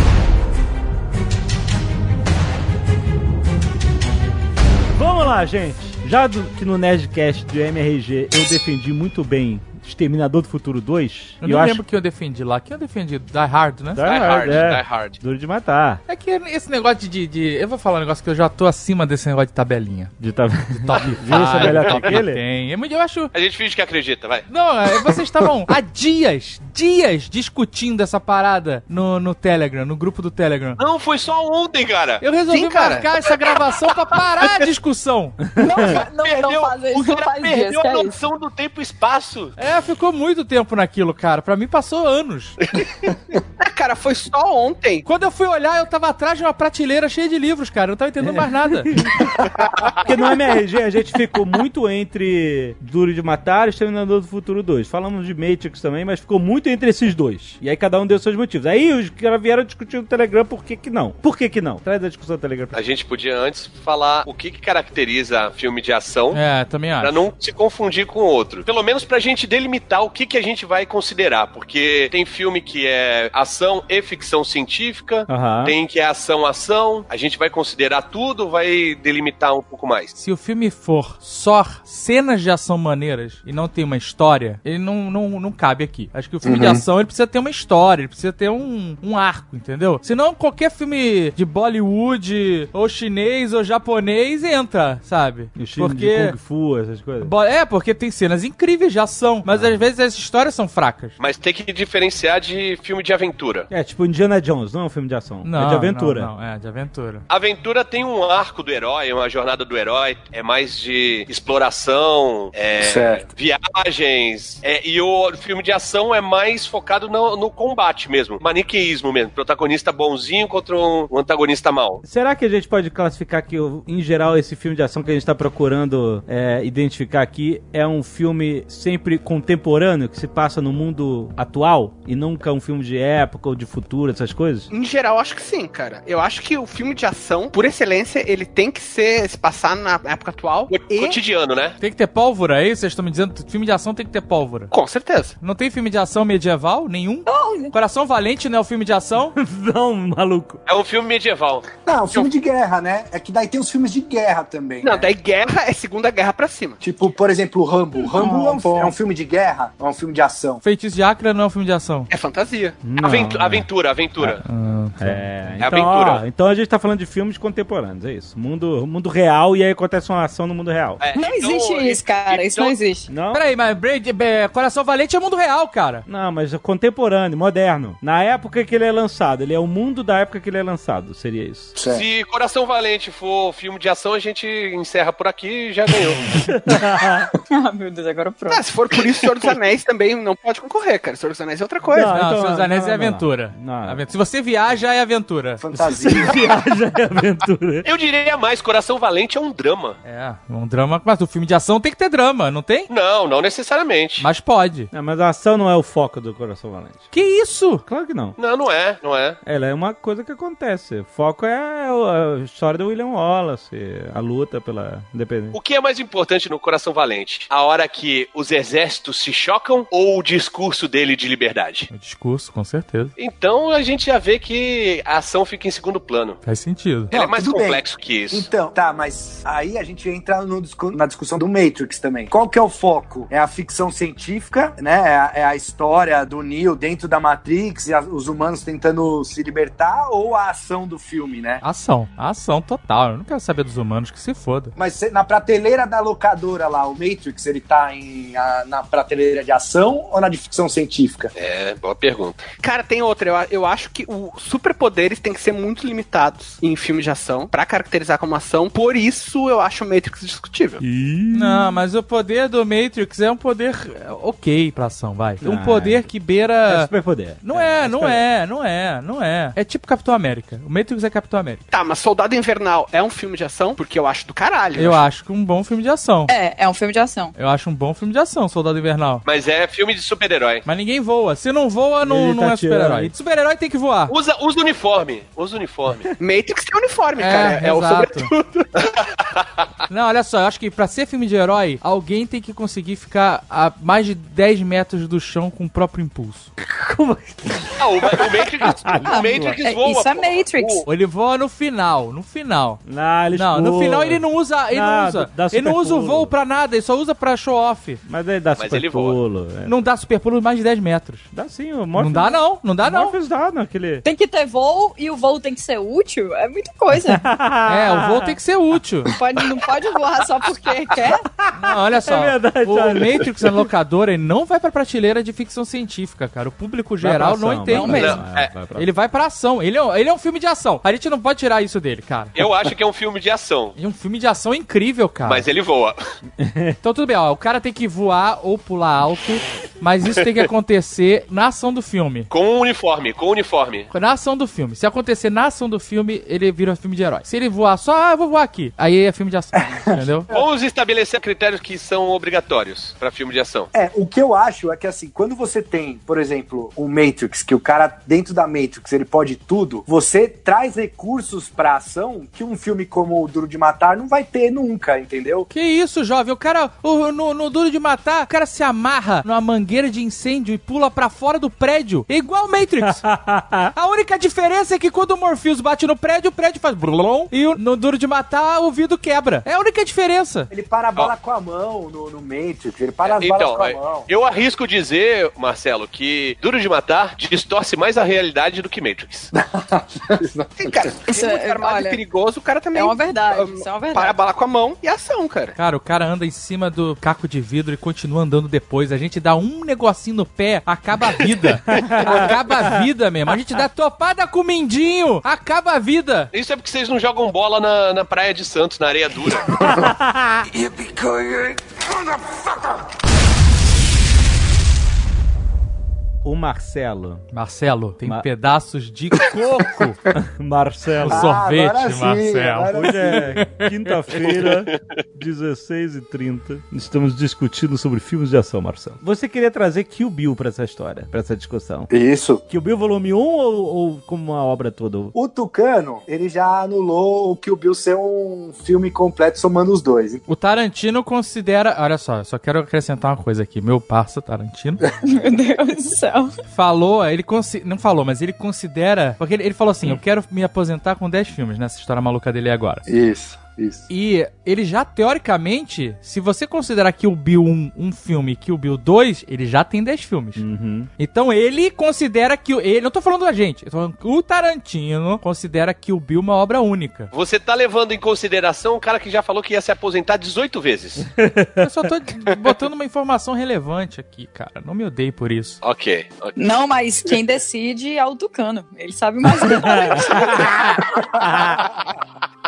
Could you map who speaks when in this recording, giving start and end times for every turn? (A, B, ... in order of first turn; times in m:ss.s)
0:05.0-0:11.8 A
0:11.4-0:14.0 B
0:14.0-0:16.0 A
0:14.0-0:15.2 C
0:16.1-0:20.2 B
0:20.2-0:22.4 A
0:20.8-0:23.3 B
0:20.9-0:22.2 C
0:23.3-0:24.5 C
0:24.5-0:30.8 B
0:30.8-0:33.6 C
0:32.2-0:35.5 B
0:34.2-0:34.7 C
0:35.6-0:38.2 D
0:35.6-0:39.5 C
0:39.6-0:42.6 B
0:43.6-0:45.1 E
0:45.0-0:48.9 B
0:48.2-0:49.2 A
0:50.0-1:02.8 A
1:02.7-1:06.4 C
1:06.3-1:07.2 B
1:07.0-1:20.1 C
1:15.3-1:15.8 A
1:20.2-1:36.4 B
1:26.4-1:26.8 F
1:35.6-1:37.3 A
1:37.2-1:41.2 B
1:39.5-1:39.8 A
1:41.2-1:43.7 C
1:43.7-1:46.3 A
1:45.4-1:47.2 B
1:47.3-2:02.0 C
1:52.8-1:53.3 F
2:02.0-2:14.7 A
2:14.7-2:21.2 E
2:20.7-2:21.8 C
2:21.8-2:24.7 B
2:24.7-2:25.4 E
2:25.4-2:29.4 B
2:27.3-2:27.8 D
2:29.4-2:30.6 A
2:30.7-2:32.3 C
2:31.7-2:35.1 F
2:34.8-2:36.8 E
2:36.8-2:40.6 F
2:38.1-2:38.9 D
2:40.6-2:42.1 B
2:42.1-2:42.8 E
2:42.8-2:43.7 A
2:43.0-2:44.4 C
2:44.2-2:45.2 B
2:45.0-2:51.0 A
2:45.6-2:46.2 C
2:51.0-2:52.8 C
2:51.2-2:53.1 D
2:53.1-2:53.4 A
2:53.3-2:56.0 B
2:56.1-3:01.8 A
3:01.8-3:02.0 F
3:01.8-3:06.4 C
3:06.6-3:07.2 A
3:07.5-3:08.6 D
3:08.5-3:12.2 E
3:11.9-3:14.0 A
3:12.1-3:15.6 B
3:15.6-3:16.5 F
3:15.8-3:17.9 A
3:17.8-3:20.0 C
3:20.0-3:22.9 B
3:22.9-3:24.3 C
3:24.2-3:24.9 B
3:24.9-3:27.1 A
3:27.1-3:27.8 B
3:27.8-3:28.4 A
3:28.4-3:29.4 C
3:29.4-3:35.6 A
3:35.5-3:41.9 C
3:41.9-3:43.1 B
3:43.2-3:46.4 C
3:46.4-3:47.1 B
3:47.1-3:48.5 C
3:47.1-4:01.6 F
4:01.6-4:04.7 B
4:04.8-4:11.3 F
4:11.4-4:12.5 C
4:12.6-4:20.8 E
4:20.8-4:21.8 A
4:21.3-4:26.9 B
4:25.4-4:26.1 A
4:26.7-4:28.2 A
4:27.4-4:31.6 B
4:31.7-4:35.1 E
4:34.8-4:36.3 B
4:36.3-4:37.3 D
4:37.4-4:39.2 B
4:39.2-4:40.6 C
4:40.6-4:44.1 B
4:42.0-4:43.1 A
4:44.1-4:46.1 C
4:46.2-4:48.6 E
4:47.2-4:48.3 B
4:49.9-4:56.5 B
4:56.6-4:59.6 A
4:57.8-5:00.8 C
4:59.1-5:00.8 D
5:00.9-5:02.8 B
5:02.9-5:06.3 A
5:03.3-5:08.0 B
5:08.1-5:09.8 A
5:08.6-5:09.2 C
5:09.6-5:11.3 B
5:11.3-5:14.0 A
5:12.0-5:13.2 B
5:14.0-5:17.3 D
5:17.0-5:18.3 A
5:17.7-5:19.1 B
5:19.1-5:21.3 D
5:21.4-5:23.5 A
5:21.6-5:28.2 B
5:27.0-5:28.9 A
5:27.7-5:28.2 D
5:27.8-5:28.6 C
5:28.7-5:32.4 B
5:32.4-5:33.8 C
5:33.8-5:35.5 B
5:35.2-5:36.0 C
5:36.4-5:36.8 A
5:36.8-5:42.3 B
5:42.3-5:43.9 C
5:43.9-5:50.3 B
5:49.6-5:50.4 F
5:50.3-5:53.7 C
5:53.7-6:05.5 F
6:05.5-6:13.0 B
6:12.8-6:13.7 A
6:13.8-6:20.5 B
6:20.5-6:24.1 F
6:23.0-6:29.3 C
6:29.3-6:30.8 F
6:30.6-6:35.6 E
6:31.1-6:32.0 D
6:32.7-6:34.2 D
6:35.6-6:46.3 B
6:41.7-6:42.6 A
6:46.3-6:49.7 C
6:49.7-6:50.5 A
6:56.2-6:57.2 A
6:57.3-7:00.0 B
7:00.2-7:01.3 A
7:01.0-7:03.7 B
7:01.1-7:03.3 F
7:02.7-7:11.9 A
7:11.9-7:12.4 F
7:12.5-7:15.2 A
7:15.1-7:20.2 F
7:20.3-7:24.8 B
7:25.0-7:26.4 D
7:26.5-7:32.8 B
7:32.9-7:33.9 F
7:33.9-7:40.4 B
7:40.4-7:40.9 A
7:41.0-7:47.1 B
7:47.1-7:51.1 C
7:51.2-7:51.6 A
7:51.6-7:55.6 B
7:55.6-7:56.4 C
7:56.4-8:00.3 D
7:59.4-8:01.6 A